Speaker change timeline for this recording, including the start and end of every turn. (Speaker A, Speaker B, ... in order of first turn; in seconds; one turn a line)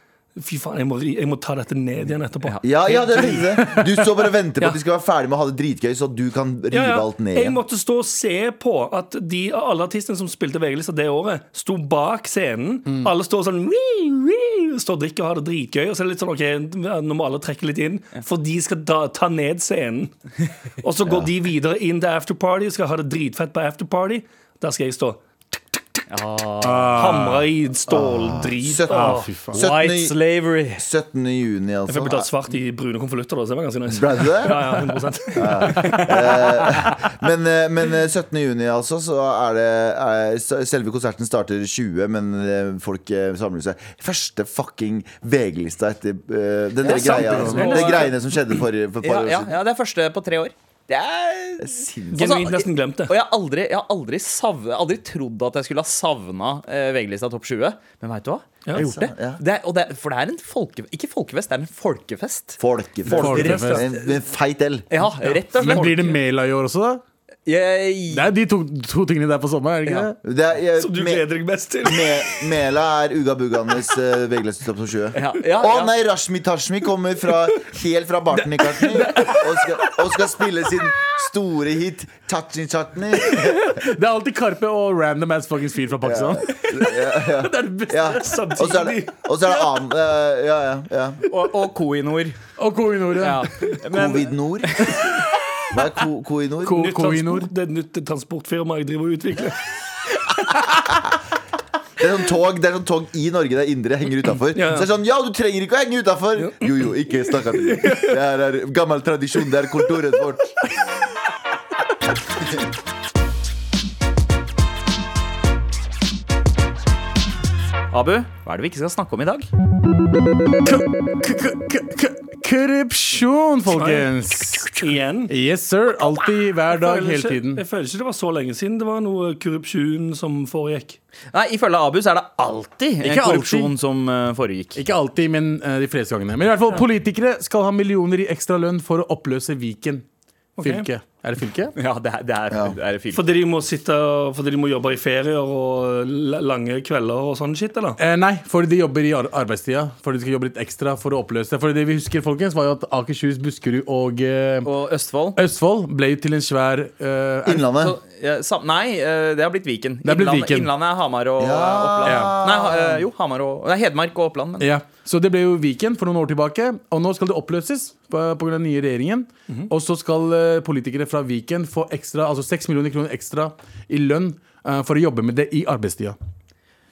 Speaker A: 0.3-3.4
Speaker B: 2.4-2.9
Speaker C: 2.6-7.6
Speaker A: 6.7-20.1
Speaker A: 20.8-26.0
Speaker C: 21.0-21.3
Speaker B: 26.1-27.3
Speaker D: 26.6-27.4
Speaker A: 26.9-29.3
Speaker C: 27.9-30.1
Speaker D: 28.9-29.6
Speaker B: 29.5-30.8
Speaker C: 30.7-32.3
Speaker A: 31.9-36.0
Speaker C: 33.9-34.6
Speaker C: 35.3-49.5
Speaker D: 35.7-36.2
Speaker A: 46.8-48.2
Speaker D: 46.9-47.9
Speaker B: 46.9-48.1
Speaker B: 49.0-58.5
Speaker C: 51.6-52.4
Speaker A: 52.1-53.1
Speaker C: 58.7-59.4
Speaker B: 59.4-64.1
Speaker C: 62.6-64.9
Speaker D: 63.1-63.9
Speaker B: 64.9-66.1
Speaker D: 65.4-67.0
Speaker A: 65.6-66.1
Speaker B: 67.5-68.3
Speaker D: 68.1-70.2
Speaker C: 70.2-71.3
Speaker A: 70.8-72.3
Speaker C: 71.8-83.5
Speaker B: 75.1-75.9
Speaker A: 78.7-79.4
Speaker D: 83.3-88.2
Speaker C: 86.0-91.2
Speaker A: 88.2-89.1
Speaker B: 91.3-92.4
Speaker D: 92.6-93.5
Speaker B: 93.2-95.0
Speaker C: 93.9-94.9
Speaker C: 95.7-96.9
Speaker D: 96.6-97.5
Speaker A: 96.7-99.6
Speaker C: 102.0-110.5
Speaker A: 104.5-104.9
Speaker A: 106.4-108.2
Speaker B: 117.9-119.5
Speaker D: 120.6-127.6
Speaker A: 123.7-124.0
Speaker A: 124.8-125.3
Speaker A: 126.7-131.0
Speaker B: 131.3-134.8
Speaker D: 133.0-133.7
Speaker D: 134.7-140.0
Speaker A: 140.6-140.9
Speaker D: 140.6-141.7
Speaker B: 141.7-143.2
Speaker C: 142.5-142.8
Speaker A: 143.1-148.0
Speaker D: 148.0-154.7
Speaker B: 154.6-155.4
Speaker D: 155.3-157.6
Speaker C: 157.4-157.9
Speaker B: 157.8-164.7
Speaker D: 160.0-160.7
Speaker C: 161.4-163.1
Speaker D: 162.0-162.4
Speaker D: 164.6-176.2